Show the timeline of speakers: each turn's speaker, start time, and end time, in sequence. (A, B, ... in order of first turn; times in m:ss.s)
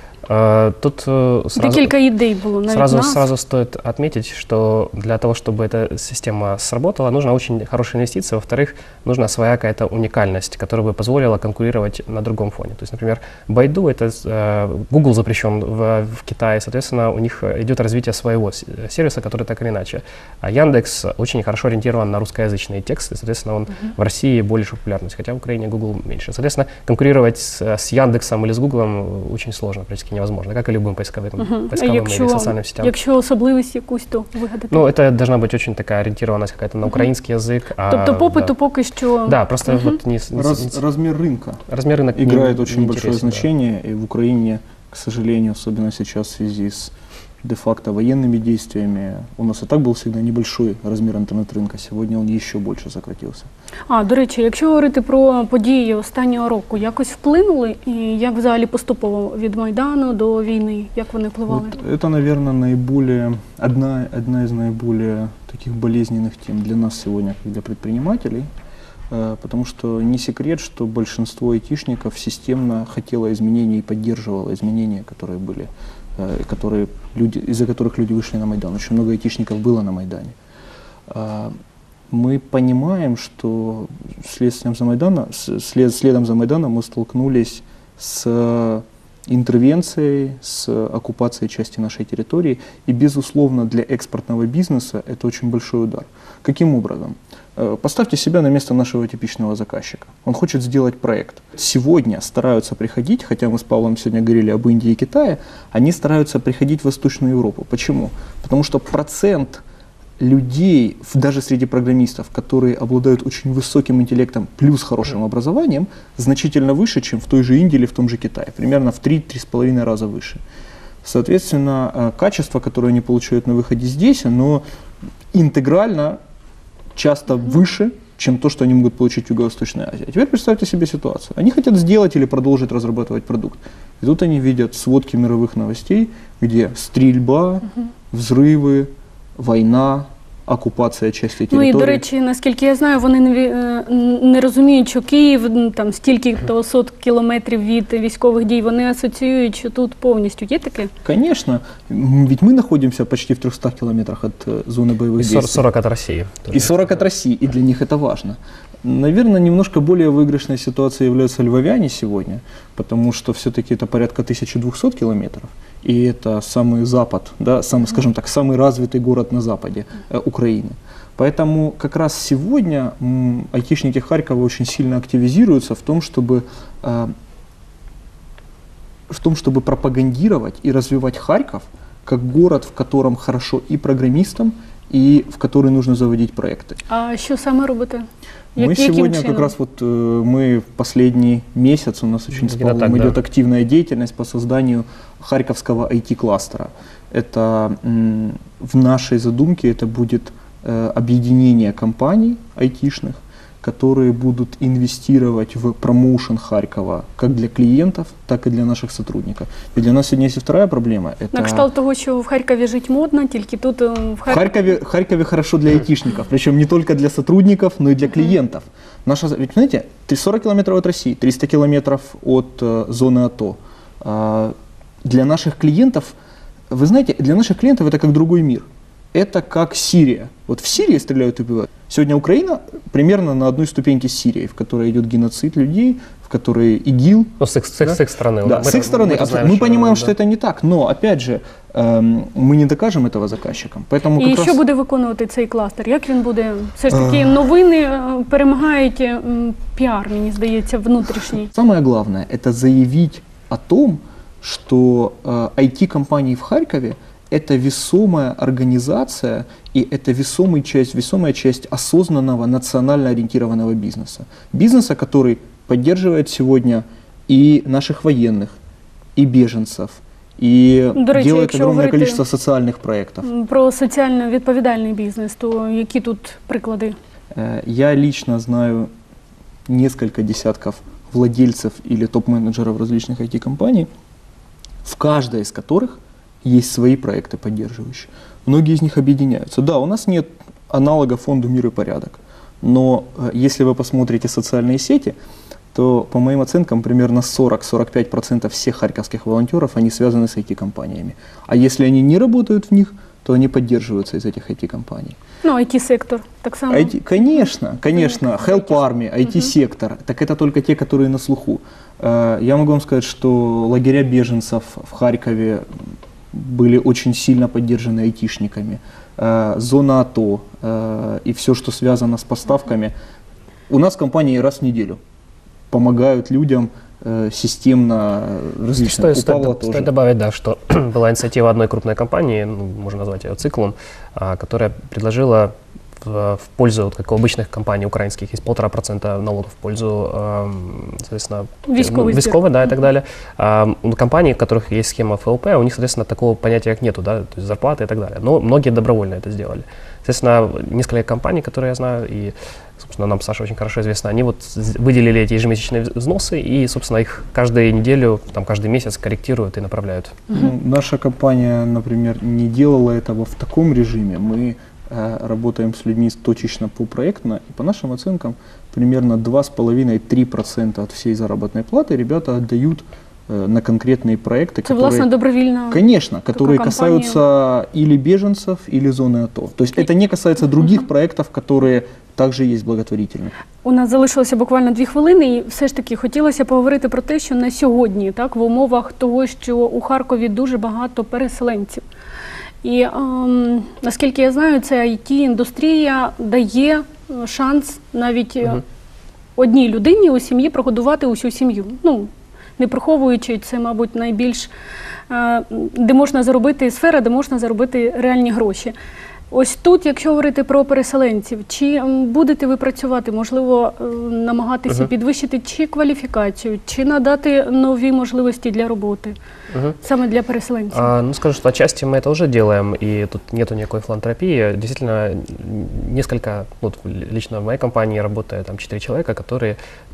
0:00.3-0:02.0 A
0:01.6-0:03.2 B
0:02.7-0:32.9 A
0:31.4-0:34.8 B
0:34.7-0:38.5 A
0:37.9-0:40.0 B
0:39.2-0:40.8 A
0:40.3-0:41.6 C
0:41.7-0:43.5 A
0:42.1-0:53.5 C
0:53.9-1:01.8 B
1:01.5-1:08.5 C
1:09.1-1:20.4 C
1:21.1-1:21.6 C
1:22.1-1:49.6 C
1:50.2-2:00.4 C
2:01.0-2:04.6 C
2:05.3-2:06.2 C
2:06.9-2:22.0 C
2:21.5-2:30.9 B
2:31.0-2:35.6 C
2:35.2-2:37.0 A
2:36.5-2:57.1 C
2:59.1-3:06.8 C
3:06.9-3:08.0 B
3:08.6-3:09.5 B
3:08.6-3:31.7 C
3:12.3-3:13.2 A
3:31.3-3:34.5 B
3:34.2-3:46.1 C
3:46.7-4:04.6 C
3:57.4-4:00.1 A
4:04.2-4:11.5 B
4:06.9-4:07.4 C
4:11.5-4:28.6 C
4:29.2-4:33.3 C
4:30.9-4:32.2 B
4:33.2-4:37.0 B
4:37.3-4:38.9 C
4:39.7-4:43.9 C
4:44.8-4:55.2 C
4:55.7-5:05.2 C
5:05.4-5:09.5 B
5:06.7-5:15.8 C
5:16.3-5:22.9 C
5:23.7-5:25.0 C
5:25.7-5:29.9 C
5:28.8-6:00.2 A
5:41.7-5:42.5 B
6:00.3-6:15.1 C
6:14.6-6:15.8 B
6:15.7-6:23.4 C
6:16.3-6:17.2 B
6:23.6-6:31.8 B
6:32.6-6:38.6 B
6:39.4-6:44.5 B
6:45.1-6:48.7 B
6:49.3-6:59.2 B
6:59.5-6:59.8 A
6:59.8-7:00.8 B
7:00.7-7:09.6 A